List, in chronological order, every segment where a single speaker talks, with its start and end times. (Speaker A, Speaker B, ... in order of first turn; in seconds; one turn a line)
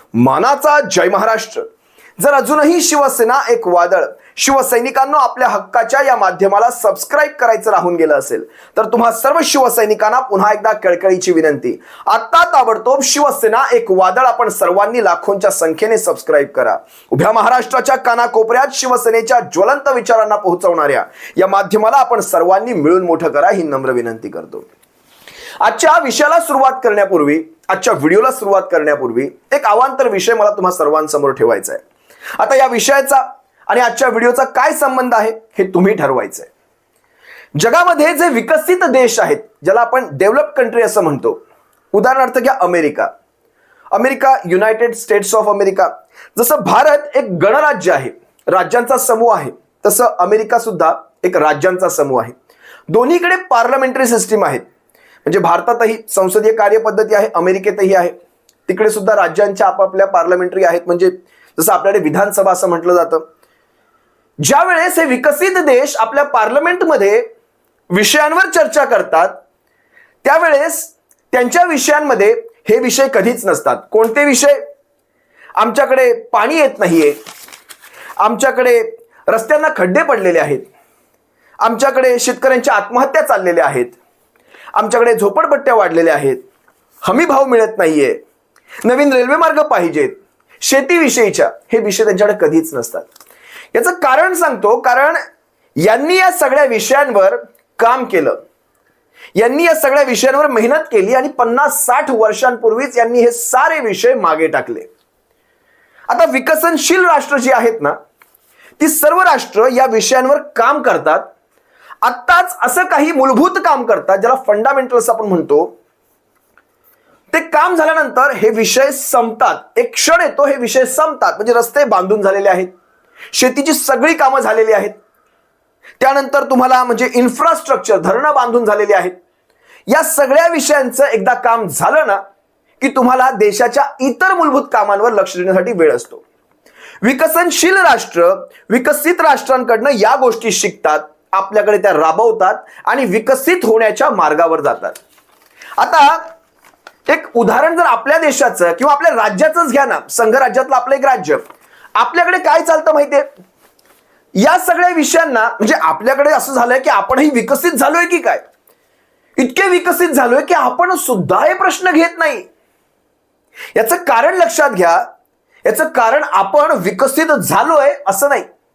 Speaker A: 0.2-1.6
Speaker A: 2.2-24.7
Speaker A: 25.6-31.8
Speaker A: 32.4-36.5
Speaker A: 37.6-41.4
Speaker A: 41.9-43.1
Speaker A: 43.9-52.3
Speaker A: 52.9-54.6
Speaker A: 55.2-58.1
Speaker A: 58.7-63.2
Speaker A: 64.4-67.2
Speaker A: 67.9-69.4
Speaker A: 70.2-74.6
Speaker A: 75.6-77.2
Speaker A: 78.2-80.7
Speaker A: 81.6-84.0
Speaker A: 84.8-86.4
Speaker A: 87.0-88.2
Speaker A: 88.8-93.1
Speaker A: 93.7-95.2
Speaker A: 95.8-98.4
Speaker A: 99.4-104.9
Speaker A: 106.1-108.0
Speaker A: 108.8-111.3
Speaker A: 112.0-115.7
Speaker A: 117.3-122.7
Speaker A: 123.3-124.9
Speaker A: 126.0-129.1
Speaker A: 129.9-132.2
Speaker A: 132.8-136.2
Speaker A: 137.0-145.0
Speaker A: 145.8-146.3
Speaker A: 147.1-151.4
Speaker A: 152.0-153.3
Speaker A: 154.4-158.4
Speaker A: 159.4-162.5
Speaker A: 163.8-165.0
Speaker A: 165.7-168.5